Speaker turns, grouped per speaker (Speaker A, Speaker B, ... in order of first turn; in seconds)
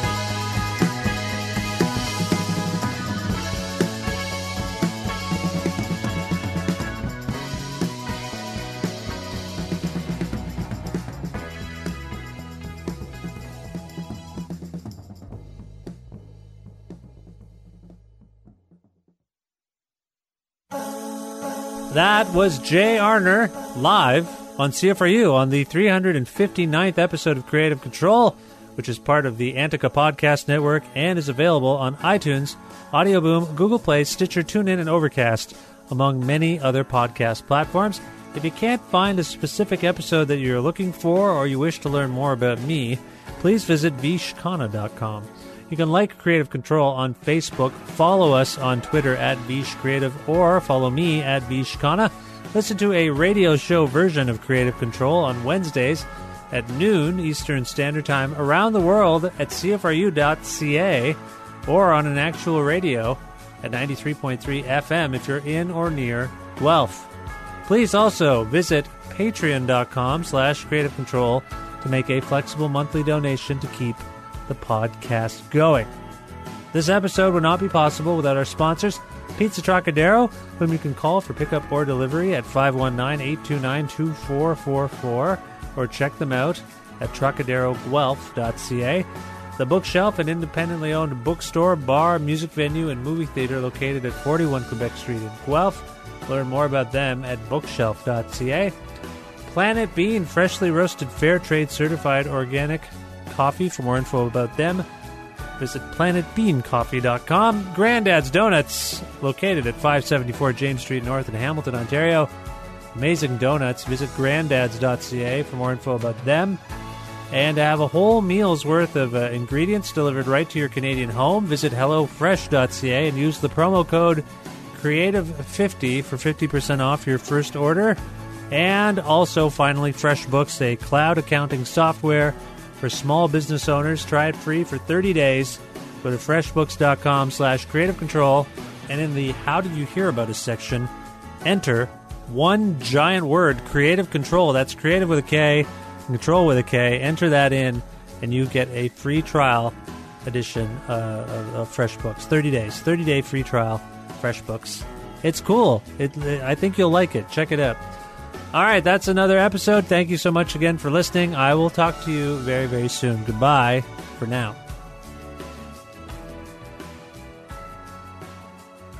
Speaker A: 21.9-67.1, 67.7-75.9, 76.7-98.7, 99.5-104.8, 105.6-112.3, 113.0-116.6, 117.3-128.0, 128.5-140.9, 141.4-157.8, 158.5-164.6